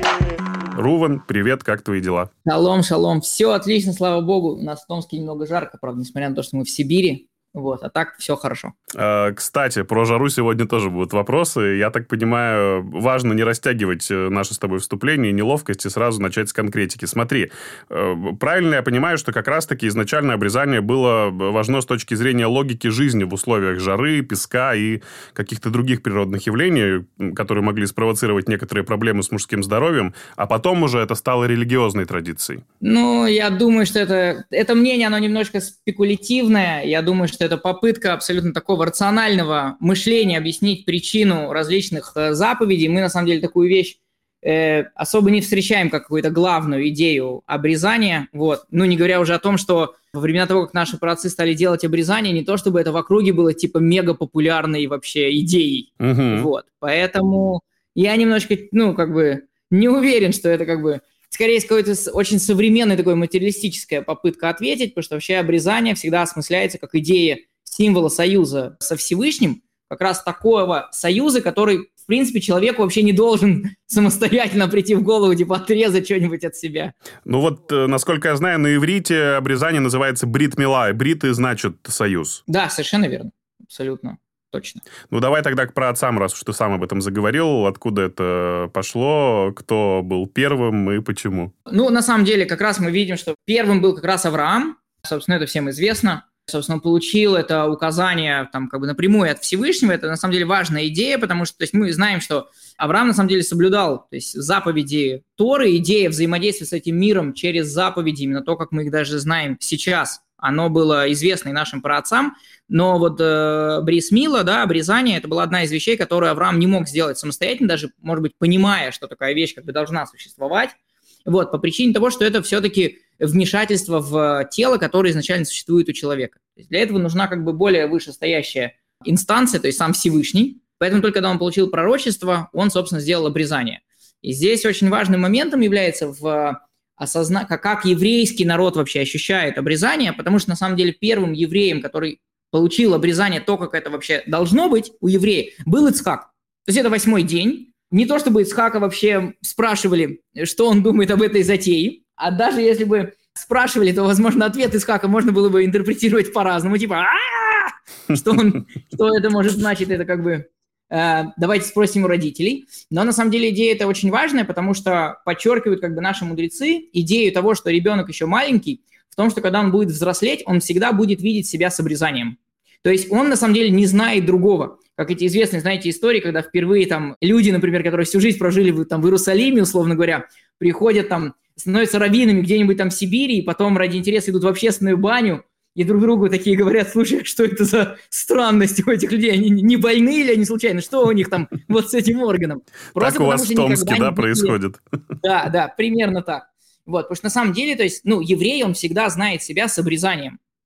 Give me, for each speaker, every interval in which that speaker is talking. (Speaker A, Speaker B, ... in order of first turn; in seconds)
Speaker A: 0.8-2.3, 9.0-32.6, 56.0-56.5, 77.3-82.4, 85.1-91.5, 193.0-194.8
Speaker B: 2.5-8.8, 32.8-77.0, 82.5-84.8, 91.7-194.6, 195.2-200.4